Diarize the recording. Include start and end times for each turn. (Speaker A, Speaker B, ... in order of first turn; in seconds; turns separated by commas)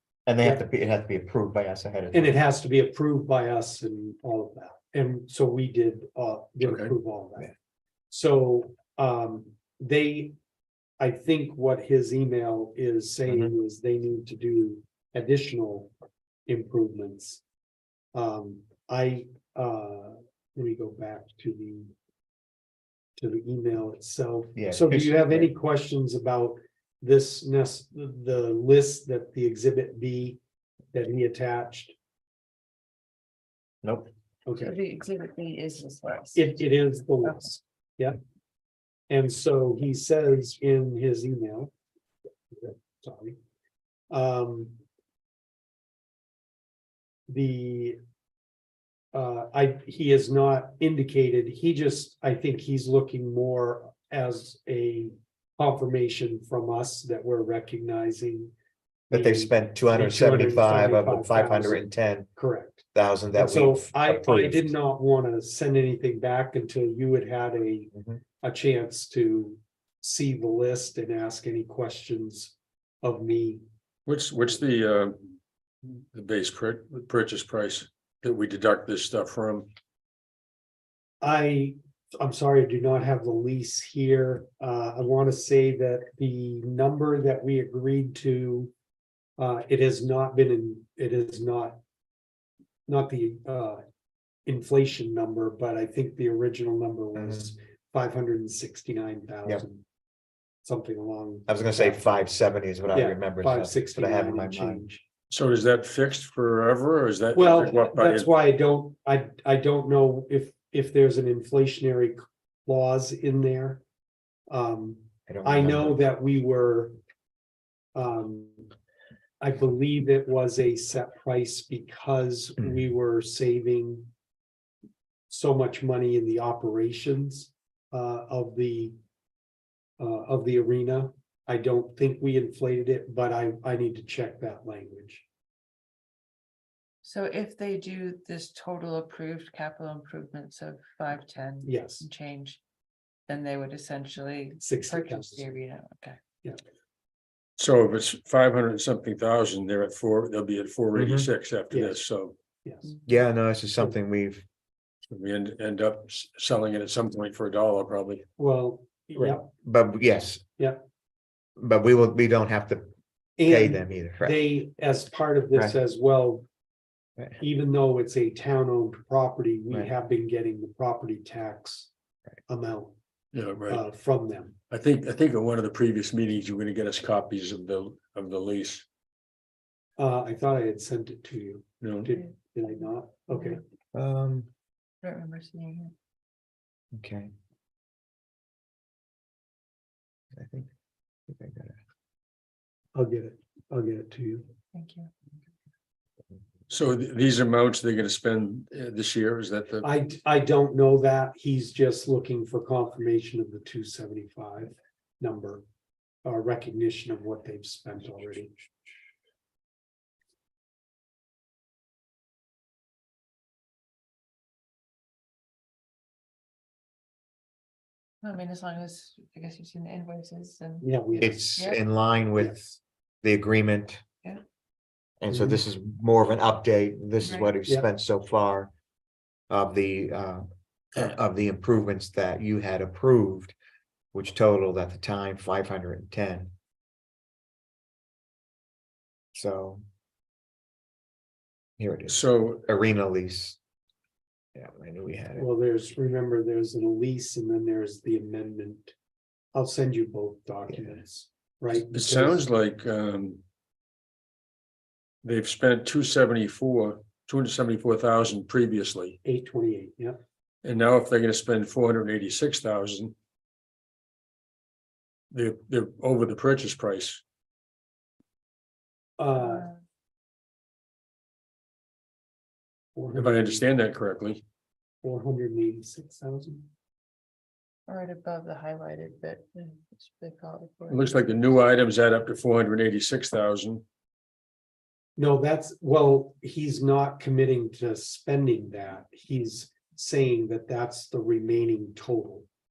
Speaker A: 0.2-2.4, Speaker B: 2.1-7.5, Speaker C: 6.6-6.9, Speaker B: 8.1-10.3, Speaker B: 11.0-15.9, Speaker B: 16.5-17.4, Speaker B: 18.1-21.9, Speaker B: 23.2-30.4, Speaker A: 24.6-25.5, Speaker B: 30.9-31.9, Speaker A: 33.8-34.1, Speaker B: 34.5-34.8, Speaker D: 34.6-36.6, Speaker B: 36.3-38.2, Speaker D: 37.2-37.6, Speaker B: 39.1-41.7, Speaker B: 42.5-43.4, Speaker B: 44.1-44.8, Speaker B: 47.3-48.0, Speaker B: 49.1-58.5, Speaker A: 59.1-62.3, Speaker B: 59.1-61.8, Speaker B: 62.4-67.9, Speaker A: 62.9-64.7, Speaker B: 68.4-73.6, Speaker C: 74.0-79.7, Speaker B: 81.2-88.7, Speaker B: 89.4-91.8, Speaker B: 92.9-93.8, Speaker B: 94.5-99.8, Speaker A: 97.2-97.5, Speaker B: 100.6-102.3, Speaker A: 101.5-104.8, Speaker B: 102.9-105.0, Speaker C: 105.3-108.3, Speaker B: 107.3-113.8, Speaker B: 114.5-117.0, Speaker A: 115.3-116.0, Speaker B: 117.9-118.7, Speaker B: 119.4-124.1, Speaker B: 125.3-128.9, Speaker B: 130.0-135.2, Speaker D: 137.0-142.6, Speaker B: 141.6-142.1, Speaker D: 143.3-146.2, Speaker B: 144.6-145.5, Speaker C: 147.6-152.4, Speaker A: 150.9-151.3, Speaker B: 151.7-152.0, Speaker B: 152.6-152.9, Speaker A: 153.1-154.4, Speaker C: 155.1-158.2, Speaker B: 158.4-159.5, Speaker A: 159.2-160.4, Speaker A: 161.6-162.8, Speaker B: 163.4-166.5, Speaker A: 163.4-164.4, Speaker B: 167.4-171.9, Speaker B: 172.5-172.9, Speaker C: 173.3-173.8, Speaker B: 173.7-174.6, Speaker C: 174.7-178.8, Speaker B: 180.0-183.6, Speaker C: 181.8-182.1, Speaker A: 183.9-184.5, Speaker D: 185.0-185.9, Speaker A: 186.9-187.3, Speaker A: 190.3-190.7, Speaker A: 191.3-191.8, Speaker B: 192.9-194.4, Speaker D: 194.7-195.1, Speaker C: 196.7-199.9, Speaker B: 199.8-205.6, Speaker B: 206.2-208.5, Speaker D: 218.2-221.8, Speaker B: 220.8-221.4, Speaker A: 221.2-222.6, Speaker B: 222.4-222.7, Speaker A: 223.2-224.0, Speaker A: 225.2-228.7, Speaker B: 225.3-225.6, Speaker D: 227.2-227.5, Speaker A: 229.5-233.5, Speaker A: 234.1-236.5, Speaker A: 239.3-239.8, Speaker A: 241.8-243.6, Speaker C: 242.1-242.6, Speaker A: 244.5-245.5, Speaker B: 245.3-248.9, Speaker B: 249.5-252.4, Speaker A: 250.7-250.9, Speaker C: 251.9-253.4, Speaker C: 255.2-259.2, Speaker B: 259.2-260.2, Speaker C: 260.6-263.1, Speaker C: 265.3-267.2, Speaker B: 269.2-269.7, Speaker D: 269.4-269.8, Speaker B: 272.9-273.6, Speaker C: 273.1-274.4, Speaker B: 275.0-276.7, Speaker D: 277.9-281.4, Speaker C: 280.9-283.8, Speaker B: 285.2-292.5